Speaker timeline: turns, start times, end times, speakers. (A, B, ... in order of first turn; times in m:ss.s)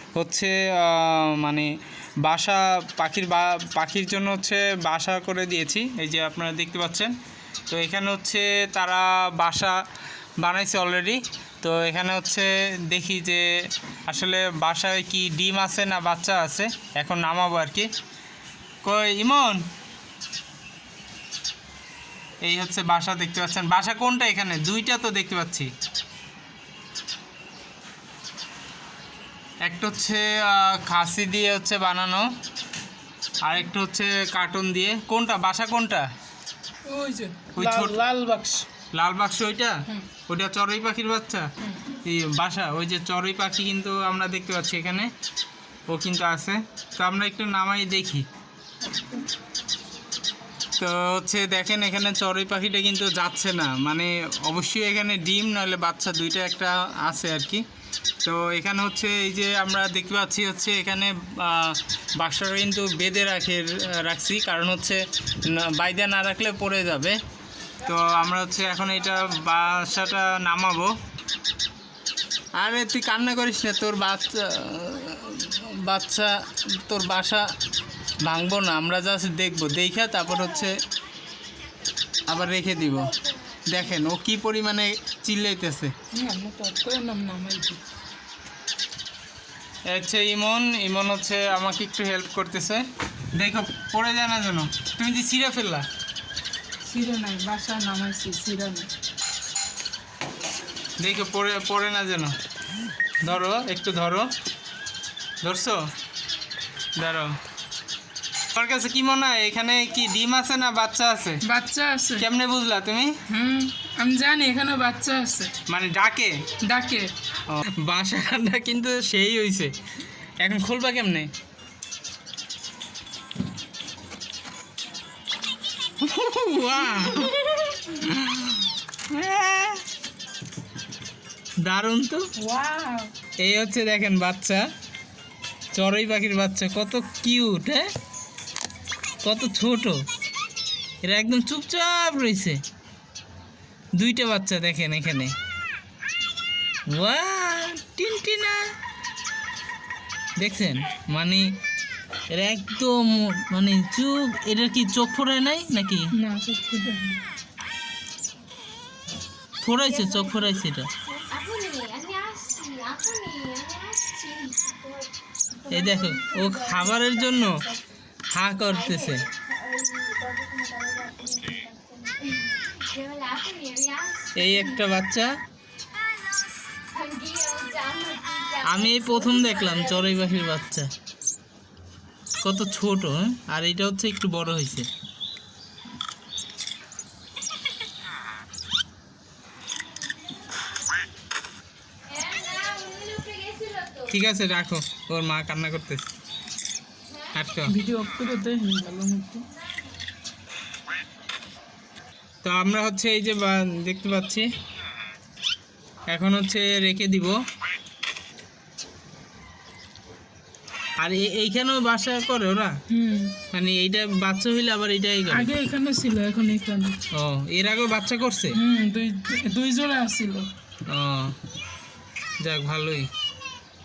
0:00.2-0:01.7 A
0:02.2-0:07.1 A
0:07.7-0:09.8 A
0:10.4-0:13.5 A
0:14.1-0:17.9 A
0:18.8-0:19.6 A
0:22.4-0:25.7 A
0:29.6-0:32.3 A
0:33.4-0:36.1 A
0:36.9-0:38.7 B
0:37.6-0:38.0 A
0:38.9-0:45.1 A
0:45.9-0:48.3 A
0:48.9-0:49.2 B
0:50.8-0:57.6 A
0:58.2-1:07.2 A
1:07.8-1:10.9 A
1:12.6-1:17.5 A
1:18.2-1:20.8 A
1:22.3-1:23.1 A
1:23.7-1:25.9 A
1:26.1-1:27.8 B
1:29.9-1:35.9 A
1:36.9-1:38.9 B
1:41.0-1:42.4 A
1:43.2-1:44.3 A
1:45.4-1:45.8 A
1:47.0-1:47.4 A
1:48.6-1:51.4 A
1:51.4-1:52.3 B
1:52.2-1:53.1 A
1:53.3-1:55.5 B
1:55.7-1:56.3 A
1:56.6-1:57.1 B
1:57.5-1:59.7 A
2:00.4-2:01.3 A
2:06.0-2:09.8 A
2:07.0-2:07.4 B
2:11.6-2:12.2 A
2:12.4-2:13.1 B
2:13.4-2:14.7 A
2:15.7-2:17.9 A
2:19.2-2:20.0 A
2:21.0-2:22.6 A
2:24.0-2:25.3 A
2:26.9-2:28.7 A
2:30.4-2:31.5 A
2:32.3-2:36.1 A
2:36.1-2:37.2 B
2:39.6-2:40.9 A
2:39.8-2:45.1 C
2:45.7-2:47.6 A
2:45.8-2:46.2 C
2:46.3-2:46.7 B
2:48.3-2:49.3 A
2:48.7-2:54.8 C
2:54.4-2:55.3 A
2:56.9-3:00.6 C
2:58.6-3:00.9 A
3:02.4-3:04.9 A
3:10.0-3:10.7 C
3:12.1-3:14.1 C
3:14.1-3:16.1 A
3:17.1-3:17.3 C
3:17.4-3:17.7 A
3:17.7-3:19.5 B
3:19.6-3:20.0 C
3:22.4-3:24.5 A
3:26.1-3:27.4 A
3:31.0-3:32.7 A
3:32.9-3:33.4 B
3:33.5-3:35.5 A
3:35.3-3:37.0 B
3:37.1-3:38.6 A
3:38.5-3:40.5 B
3:40.9-3:41.3 A
3:42.4-3:43.1 A